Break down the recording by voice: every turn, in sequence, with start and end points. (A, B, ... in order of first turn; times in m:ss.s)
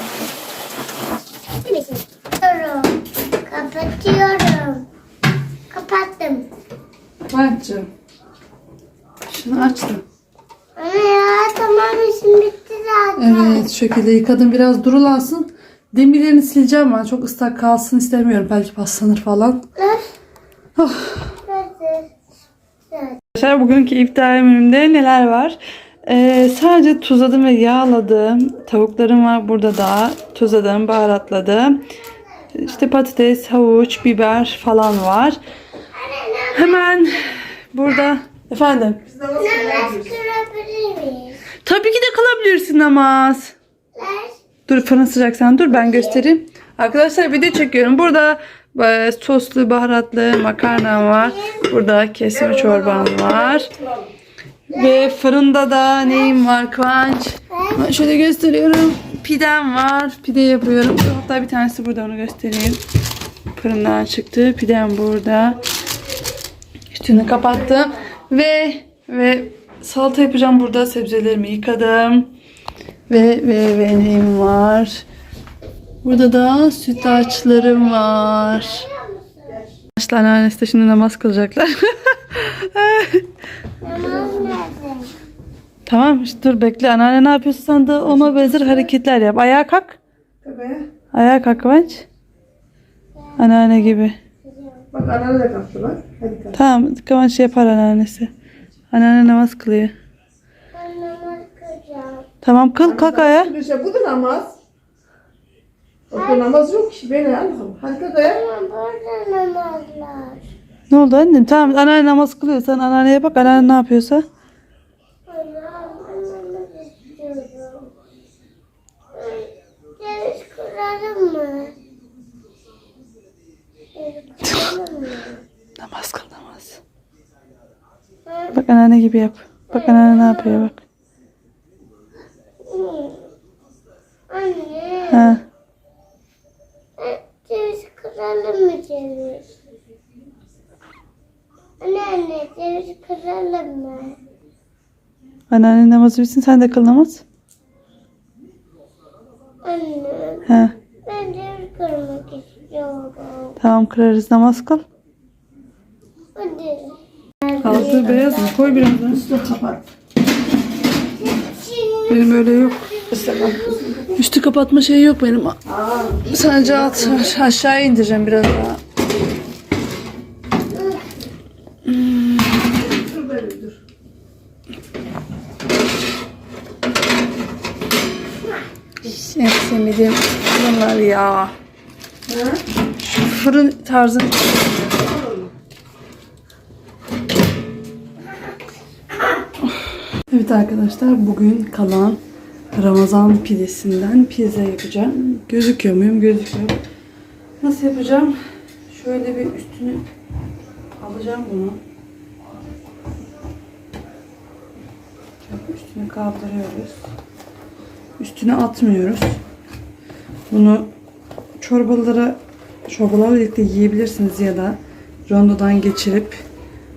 0:01.6-0:04.9 A
0:05.7-0:06.5 A
0:07.3-0:07.9 B
0:09.3-0:10.0 B
0:10.8-0:13.7 A
0:13.2-0:19.6 B
0:19.8-0:20.1 A
0:20.8-0:21.4 B
0:21.4-0:22.1 A
0:22.9-0:23.2 A
0:23.4-0:31.8 B
0:32.5-0:35.4 B
0:35.9-0:37.1 A
0:36.5-0:39.0 B
0:39.1-0:40.2 C
0:39.4-0:41.4 A
0:41.6-0:43.5 B
0:44.0-0:44.4 A
0:44.7-0:53.7 B
0:45.7-0:46.2 A
0:51.1-0:51.7 A
0:52.4-0:53.3 A
0:54.7-1:02.8 B
0:54.7-0:55.1 A
0:57.5-0:57.8 A
1:03.6-1:05.6 B
1:06.9-1:12.3 B
1:13.1-1:15.0 B
1:16.0-1:18.9 B
1:17.0-1:19.7 A
1:20.0-1:23.3 B
1:23.8-1:25.1 A
1:23.9-1:24.6 C
1:25.9-1:30.0 B
1:30.4-1:30.9 C
1:31.1-1:32.1 B
1:33.4-1:34.2 B
1:34.4-1:34.8 A
1:34.9-1:36.6 C
1:36.5-1:38.3 B
1:38.9-1:39.9 B
1:40.7-1:42.3 A
1:42.4-1:43.5 B
1:42.8-1:44.6 C
1:46.1-1:48.4 C
1:46.1-1:46.5 A
1:48.2-1:50.4 A
1:50.9-1:54.3 B
1:55.3-1:57.9 A
1:59.1-2:01.7 A
2:04.0-2:05.4 A
2:04.4-2:04.7 B
2:05.8-2:06.8 B
2:08.3-2:08.6 A
2:08.5-2:10.8 B
2:09.7-2:10.7 A
2:12.7-2:13.2 A
2:14.3-2:15.4 A
2:15.1-2:15.4 B
2:17.0-2:19.4 A
2:21.8-2:24.2 A
2:25.5-2:27.2 B
2:29.6-2:30.5 A
2:30.5-2:30.7 B
2:31.0-2:33.6 A
2:33.6-2:34.8 B
2:36.4-2:38.6 A
2:37.6-2:39.2 B
2:37.7-2:38.2 C
2:39.0-2:39.8 C
2:41.2-2:43.8 A
2:42.1-2:42.9 B
2:43.1-2:44.1 C
2:44.2-2:45.6 B
2:45.7-2:47.3 C
2:46.2-2:48.8 B
2:51.9-2:52.4 B
2:52.8-2:53.8 C
2:59.0-3:01.5 B
3:02.3-3:02.6 C
3:03.2-3:04.7 B
3:05.0-3:05.5 C
3:10.3-3:12.2 B
3:12.8-3:16.8 B
3:17.6-3:18.4 B
3:18.9-3:20.0 B
3:21.0-3:21.8 B
3:25.5-3:27.0 B
3:28.2-3:29.4 B
3:30.5-3:30.9 B
3:31.6-3:36.4 B